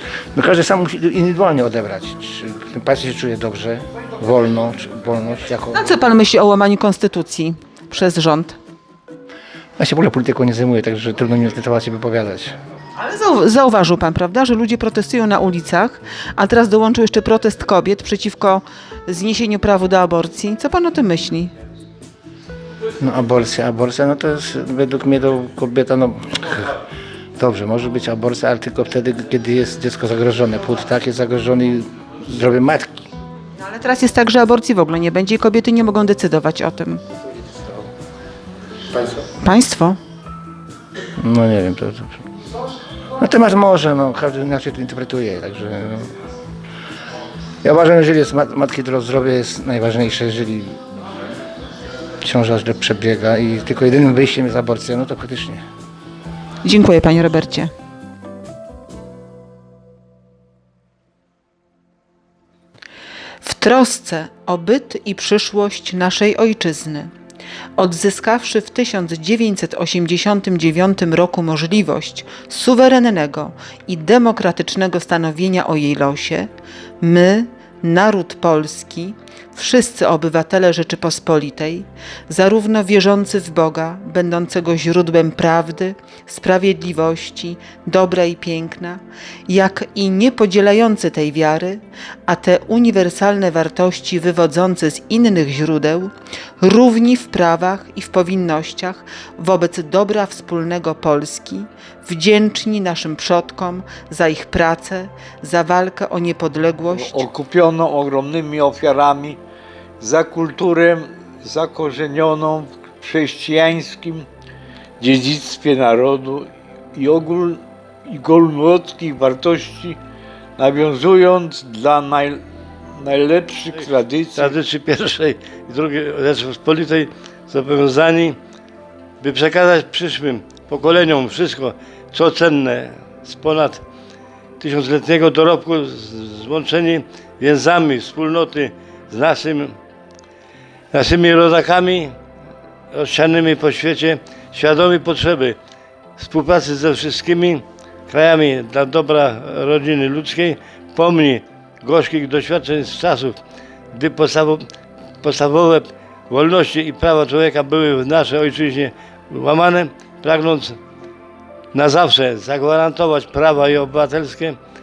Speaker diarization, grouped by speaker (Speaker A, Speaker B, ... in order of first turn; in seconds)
Speaker A: 0.3-5.9, 9.8-12.5, 23.0-26.7, 27.4-33.0, 41.2-42.2, 43.2-46.1, 47.6-50.7, 52.2-55.6
Speaker B: 5.7-8.6, 13.0-21.5, 33.6-37.0, 39.4-40.0, 56.6-57.7, 63.4-67.1, 67.8-76.5, 77.0-107.2
Speaker C: 106.9-109.4, 110.0-114.3, 115.0-120.0, 120.6-122.4, 123.0-124.5
Speaker D: 123.7-128.4, 129.2-133.8, 134.6-139.8, 140.9-142.2, 142.9-145.6, 146.2-153.4, 153.9-154.7, 155.2-160.8, 161.7-164.6